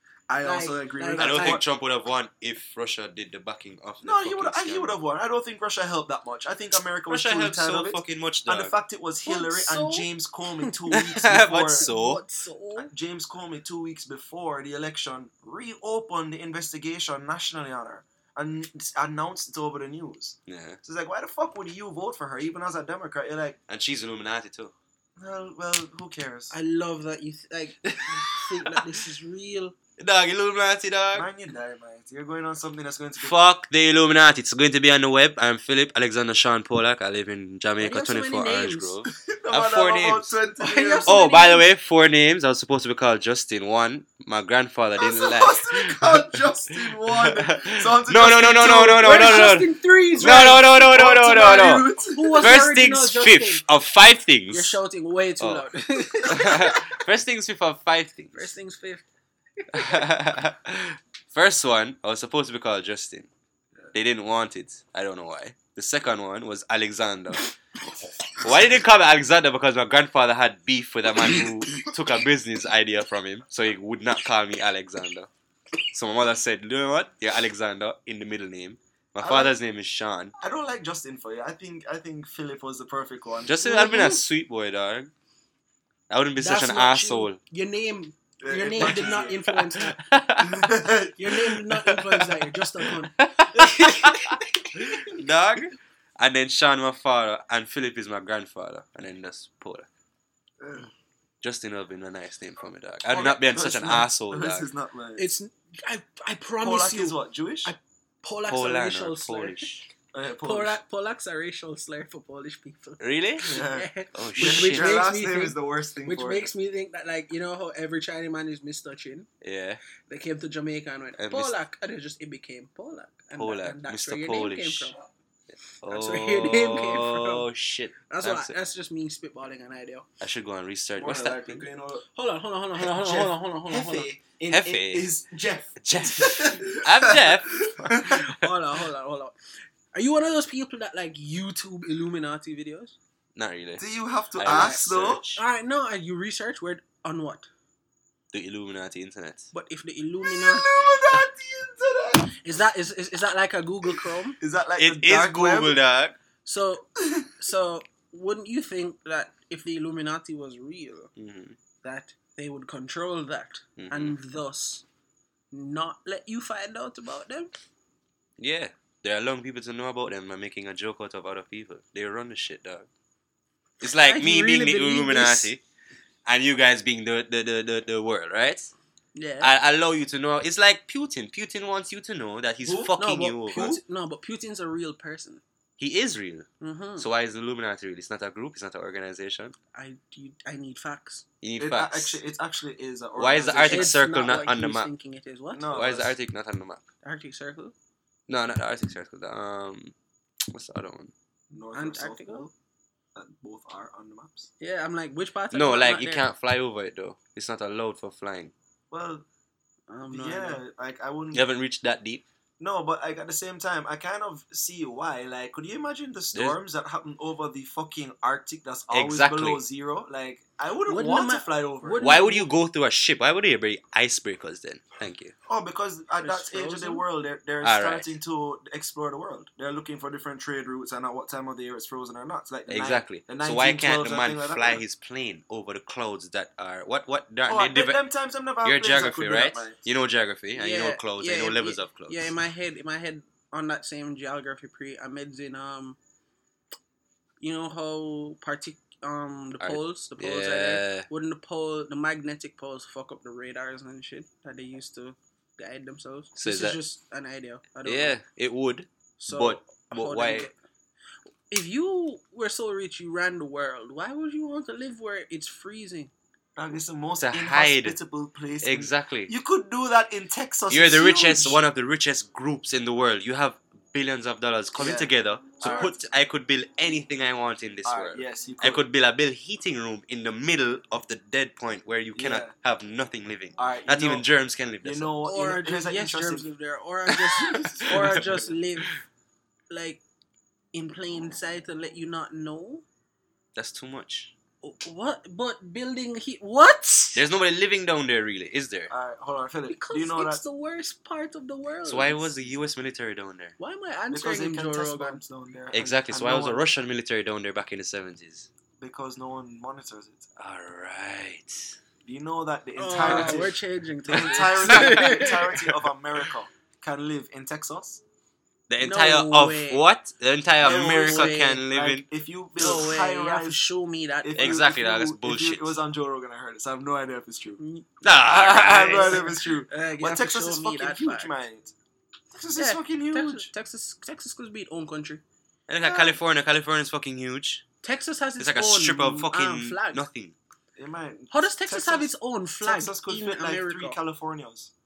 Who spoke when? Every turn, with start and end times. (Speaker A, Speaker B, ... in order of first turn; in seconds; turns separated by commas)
Speaker A: 0.3-1.6, Speaker B: 0.4-1.6, Speaker C: 1.2-4.9, Speaker A: 4.0-11.9, Speaker C: 7.1-8.7, Speaker B: 9.2-10.1, Speaker C: 10.9-12.2, Speaker B: 11.8-12.9, Speaker A: 12.9-23.6, Speaker C: 20.5-20.8, Speaker C: 23.7-24.7, Speaker A: 25.2-26.5, Speaker B: 26.5-29.8, Speaker C: 30.0-31.3, Speaker A: 31.1-33.4, Speaker C: 33.2-40.4, Speaker B: 37.8-39.0, Speaker A: 39.1-41.1, Speaker B: 40.6-41.6, Speaker C: 41.1-46.2, Speaker A: 45.0-49.5, Speaker C: 46.8-51.9, Speaker B: 49.0-50.6, Speaker A: 50.2-52.6, Speaker B: 52.1-53.6, Speaker C: 52.4-54.8, Speaker B: 54.5-57.0, Speaker C: 55.4-55.6, Speaker C: 56.2-58.5, Speaker B: 58.3-59.0, Speaker B: 59.6-60.1, Speaker C: 59.7-63.3, Speaker C: 63.9-67.5, Speaker C: 68.4-75.3, Speaker C: 75.9-80.3, Speaker A: 79.2-79.5, Speaker A: 80.4-83.5, Speaker C: 83.5-85.1, Speaker B: 83.6-84.2, Speaker C: 86.1-87.4, Speaker B: 86.4-90.0, Speaker A: 88.4-89.4, Speaker C: 88.8-90.6, Speaker A: 90.4-92.3, Speaker B: 91.2-95.0, Speaker C: 93.2-94.4, Speaker C: 95.0-99.9, Speaker A: 100.6-100.9, Speaker C: 101.4-104.7, Speaker A: 103.1-105.2, Speaker B: 105.2-109.7, Speaker A: 106.6-107.7, Speaker C: 108.5-109.9, Speaker A: 110.1-110.8, Speaker B: 110.4-119.3, Speaker C: 113.0-113.6, Speaker A: 113.5-116.5, Speaker C: 114.1-114.9, Speaker C: 119.4-119.8, Speaker B: 120.1-125.0, Speaker C: 121.2-121.5, Speaker C: 123.4-124.9, Speaker C: 125.8-128.5, Speaker B: 125.9-127.5, Speaker B: 128.1-130.1, Speaker C: 130.2-131.6, Speaker A: 131.0-132.0, Speaker B: 132.1-134.1, Speaker A: 132.7-138.2, Speaker C: 134.5-135.1, Speaker C: 135.8-138.3, Speaker B: 138.0-139.4, Speaker B: 139.9-142.9, Speaker C: 143.4-145.4, Speaker A: 143.8-145.3, Speaker B: 144.5-144.8, Speaker B: 145.3-147.5, Speaker C: 148.3-149.5, Speaker B: 149.5-150.7, Speaker A: 150.2-152.4, Speaker B: 152.3-154.4, Speaker A: 154.4-155.8, Speaker C: 154.8-156.2, Speaker B: 156.4-161.1, Speaker A: 157.0-157.2, Speaker C: 161.2-161.6, Speaker B: 161.8-164.8, Speaker C: 163.8-164.1, Speaker B: 165.5-167.5, Speaker C: 168.4-172.9, Speaker C: 173.8-175.6, Speaker B: 174.0-175.5, Speaker C: 176.2-178.7, Speaker B: 179.1-179.5, Speaker C: 179.4-183.8, Speaker A: 182.7-182.9, Speaker B: 183.0-185.4, Speaker C: 185.8-189.5, Speaker B: 186.6-187.1, Speaker B: 189.7-191.2, Speaker C: 191.4-192.2, Speaker A: 191.6-194.0, Speaker C: 193.2-194.9, Speaker B: 193.7-195.7, Speaker A: 195.5-196.2, Speaker C: 195.7-196.8, Speaker B: 197.0-197.7, Speaker C: 198.3-199.9, Speaker C: 200.5-201.1, Speaker A: 201.5-202.5, Speaker B: 201.7-202.4, Speaker A: 203.1-204.5, Speaker B: 204.6-206.2, Speaker C: 205.5-208.5, Speaker A: 208.9-209.2, Speaker B: 209.9-210.6, Speaker A: 210.1-211.4, Speaker C: 211.3-212.2, Speaker A: 212.6-222.0, Speaker C: 218.9-219.6, Speaker B: 220.9-222.5, Speaker C: 222.0-225.3, Speaker A: 225.5-234.8, Speaker B: 226.2-227.0, Speaker C: 227.6-228.1, Speaker C: 232.7-238.0, Speaker A: 237.5-239.8, Speaker C: 238.6-242.3, Speaker B: 240.6-246.0, Speaker B: 247.4-258.2, Speaker C: 249.6-251.1, Speaker C: 256.4-256.8, Speaker C: 257.9-260.5, Speaker B: 259.2-260.5, Speaker B: 261.5-266.1, Speaker A: 266.6-271.6, Speaker C: 267.2-268.0, Speaker C: 268.6-269.3, Speaker C: 270.7-285.1, Speaker A: 274.8-275.9, Speaker B: 275.6-275.9, Speaker A: 277.9-278.9, Speaker A: 282.1-282.5, Speaker A: 283.6-284.2, Speaker A: 284.8-286.5, Speaker B: 285.2-288.9, Speaker C: 287.4-288.2, Speaker A: 287.4-288.5, Speaker B: 289.7-290.0, Speaker B: 290.7-292.8, Speaker C: 293.5-294.3, Speaker B: 294.6-297.2, Speaker C: 297.1-298.9, Speaker A: 298.9-300.4, Speaker B: 299.7-302.3, Speaker C: 301.9-303.6, Speaker B: 303.6-305.2, Speaker A: 304.1-306.6, Speaker C: 305.7-308.5, Speaker A: 308.8-310.3, Speaker C: 310.4-311.8, Speaker A: 312.0-313.6, Speaker B: 312.8-315.6, Speaker C: 313.0-313.4, Speaker A: 314.1-318.0, Speaker C: 314.1-315.5, Speaker C: 318.7-322.0, Speaker B: 318.8-319.8, Speaker A: 320.6-323.6, Speaker B: 320.6-321.6, Speaker B: 322.6-324.6, Speaker A: 324.2-327.6, Speaker C: 324.4-325.7, Speaker B: 327.6-327.9, Speaker C: 328.0-329.3, Speaker A: 328.1-331.7, Speaker B: 328.9-331.4, Speaker A: 332.3-333.5, Speaker B: 332.6-335.2, Speaker C: 335.7-337.6, Speaker A: 335.8-336.2, Speaker B: 337.8-340.1, Speaker C: 338.4-340.4, Speaker A: 340.8-342.1, Speaker B: 341.3-344.0, Speaker A: 342.6-344.7